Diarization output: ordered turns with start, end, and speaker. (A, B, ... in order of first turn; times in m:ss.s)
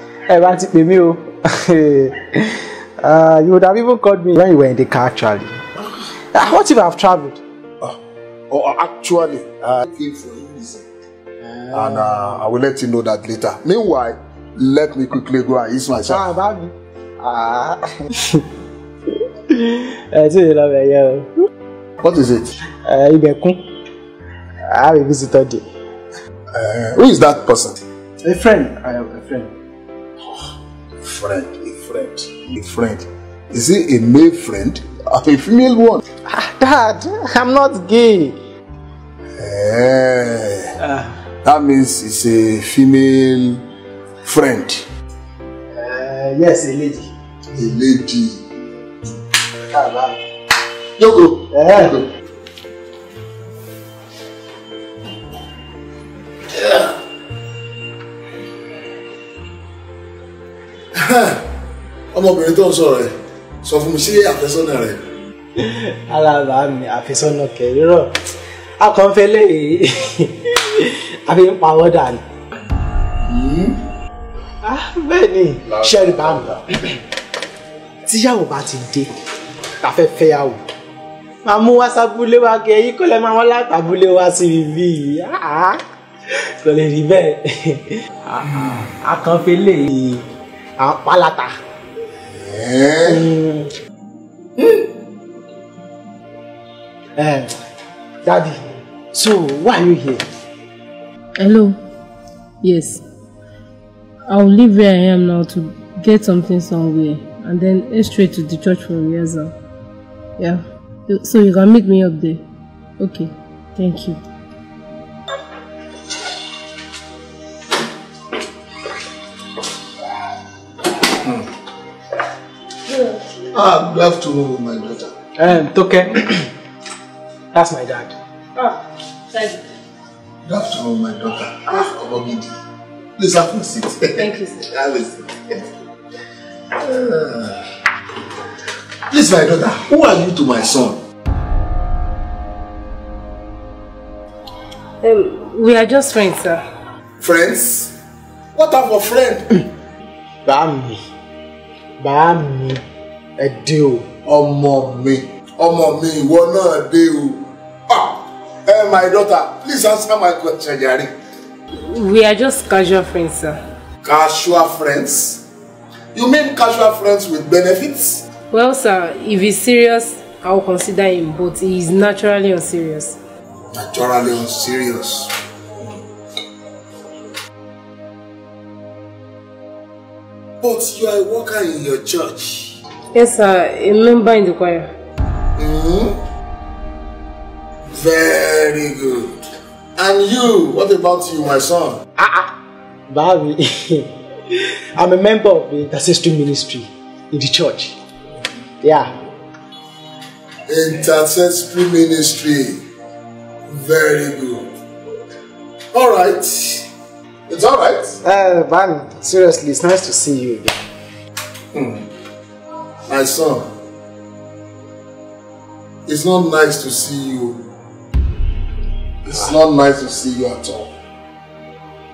0:00.3-0:07.4 A
0:08.5-0:10.9 B
0:11.4-0:12.4 A
0:11.7-0:16.3 B
0:16.0-0:18.4 A
0:19.5-0:21.3 A
0:22.0-0:22.5 B
0:22.8-0:23.6 A
0:24.7-0:25.6 A
0:26.5-0:27.8 B
0:28.2-0:29.5 A
0:31.0-0:36.0 B
0:36.3-0:38.4 A
0:39.4-0:40.7 B
0:40.8-0:41.1 A
0:41.4-0:43.6 B
0:44.2-0:44.8 B
0:45.7-0:47.1 A
0:47.5-0:48.4 B
0:49.7-0:50.2 A
0:51.0-0:52.1 B
0:51.5-0:52.0 A
0:56.5-0:56.9 B
1:01.0-1:01.4 B
1:02.1-1:03.1 B
1:03.6-1:05.0 B
1:05.6-1:08.1 A
1:08.8-1:12.2 A
1:13.2-1:13.8 B
1:14.6-1:17.0 A
1:18.0-1:19.1 A
1:19.8-1:20.6 A
1:21.4-1:25.8 A
1:26.6-1:30.2 A
1:30.8-1:31.5 A
1:32.3-1:33.3 B
1:33.0-1:33.7 A
1:37.2-1:37.5 A
1:38.2-1:38.6 A
1:39.1-1:40.2 A
1:41.4-1:41.8 C
1:42.6-1:43.0 C
1:44.3-1:49.5 C
1:50.4-1:52.4 C
1:53.0-1:54.2 C
2:03.5-2:05.1 B
2:05.4-2:06.5 A
2:07.5-2:08.1 A
2:08.6-2:09.6 C
2:10.4-2:12.5 B
2:13.2-2:15.6 B
2:14.1-2:14.6 C
2:16.8-2:17.6 B
2:19.1-2:21.0 B
2:25.0-2:26.6 C
2:27.2-2:27.9 B
2:28.5-2:29.5 B
2:30.4-2:31.0 A
2:32.0-2:32.8 A
2:33.4-2:34.1 A
2:34.2-2:41.1 B
2:41.8-2:43.6 C
2:44.0-2:45.4 B
2:46.1-2:48.2 B
2:48.5-2:53.2 C
2:53.7-2:56.0 B
3:00.6-3:02.8 B
3:03.1-3:04.9 C
3:05.6-3:06.2 B
3:07.9-3:09.4 B
3:10.0-3:12.0 B
3:12.2-3:12.5 A
3:13.1-3:18.0 A
3:18.8-3:19.1 A
3:20.7-3:22.8 B
3:23.7-3:24.7 B
3:25.9-3:26.8 B
3:27.5-3:28.2 B
3:28.2-3:30.7 A
3:31.7-3:32.1 B
3:33.1-3:33.7 B
3:36.1-3:37.6 B
3:39.2-3:40.9 B